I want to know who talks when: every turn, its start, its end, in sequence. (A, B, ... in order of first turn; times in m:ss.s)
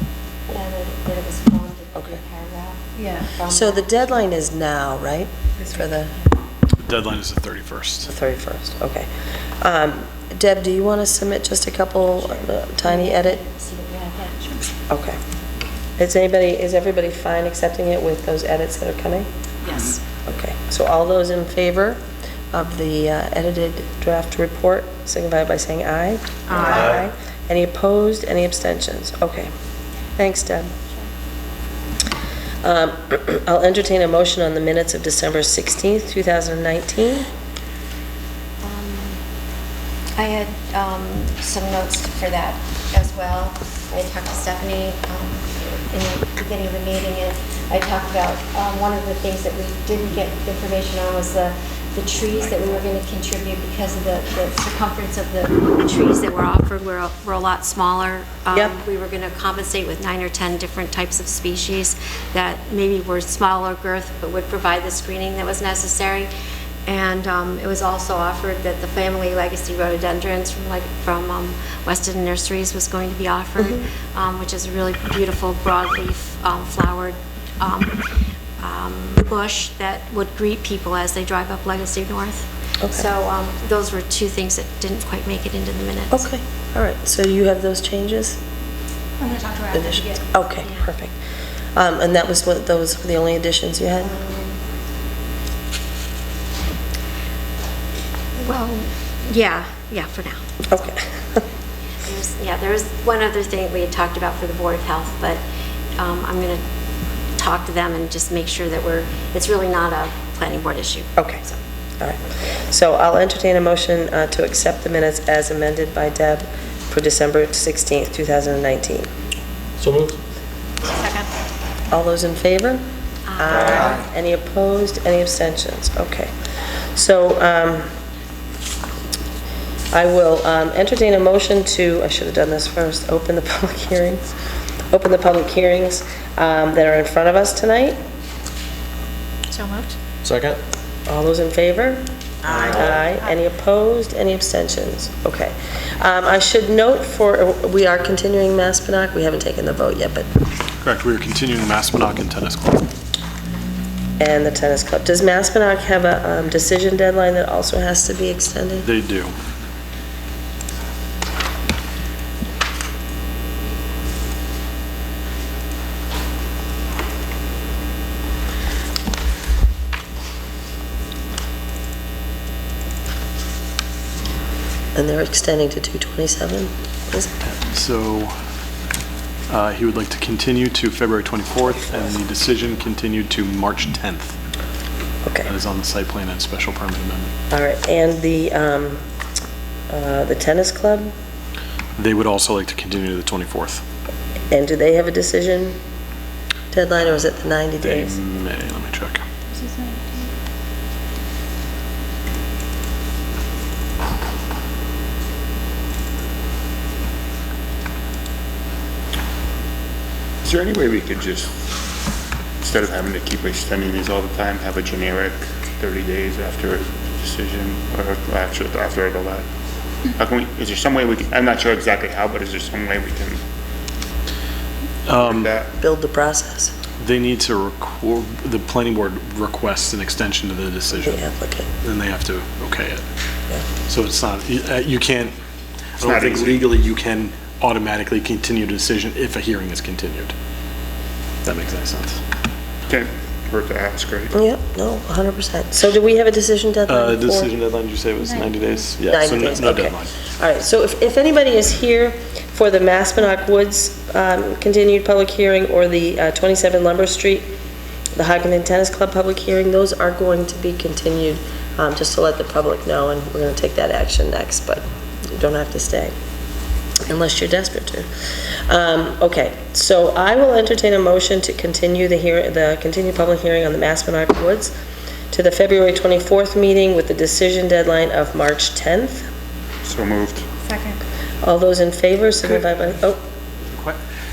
0:00.5-0:04.2 A
0:03.0-0:03.3 B
0:03.5-0:06.1 C
0:06.8-0:08.1 D
0:08.1-0:09.1 C
0:09.6-0:13.4 C
0:12.3-0:14.6 A
0:14.9-0:15.2 C
0:16.0-0:19.3 C
0:19.7-0:20.0 B
0:20.2-0:22.0 C
0:22.5-0:29.5 C
0:26.5-0:26.8 B
0:30.2-0:30.7 C
0:32.6-0:37.3 C
0:38.6-0:39.2 A
0:40.2-1:06.3 A
1:06.9-1:18.0 A
1:18.6-1:26.3 A
1:22.8-1:23.1 C
1:26.1-1:28.4 C
1:29.2-1:30.2 B
1:29.7-1:31.1 C
1:31.8-1:34.1 C
1:34.0-1:34.6 A
1:38.4-1:40.9 A
1:40.7-1:41.4 C
1:42.0-1:45.4 A
1:46.0-1:46.6 A
1:47.4-1:51.6 A
1:52.0-1:59.1 C
2:00.9-2:01.3 B
2:01.9-2:02.8 C
2:03.3-2:04.0 A
2:03.4-2:06.3 C
2:06.9-2:07.9 C
2:09.9-2:14.2 C
2:14.9-2:18.0 C
2:19.5-2:20.0 B
2:20.3-2:20.6 D
2:21.1-2:30.3 C
2:30.8-2:32.9 D
2:34.2-2:38.9 C
2:38.8-2:39.3 D
2:55.0-2:57.3 C
2:57.4-2:58.4 D
2:59.5-3:04.4 D
3:05.4-3:07.3 D
3:07.5-3:09.0 C
3:09.9-3:11.1 C
3:12.0-3:13.8 D
3:14.5-3:15.8 C
3:16.7-3:18.2 C
3:17.8-3:19.2 D
3:19.6-3:20.2 B
3:30.4-3:31.5 E
3:32.6-3:39.5 E
3:40.2-3:43.4 E
3:45.1-3:45.5 D
3:45.2-3:45.7 E
3:45.8-3:46.7 C
3:47.0-3:51.2 D
3:51.0-3:51.7 C
3:51.8-3:53.0 D
3:53.8-3:55.3 D
3:56.0-4:00.3 D
3:56.0-3:56.6 E
4:01.4-4:02.2 D
4:02.9-4:04.3 E
4:04.3-4:07.5 C
4:06.9-4:10.2 D
4:09.1-4:17.6 C
4:18.2-4:26.1 C
4:27.1-4:28.1 C
4:28.7-4:34.7 C
4:35.3-4:39.3 C
4:39.8-4:40.5 E
4:40.7-4:41.0 B
4:41.4-4:43.2 C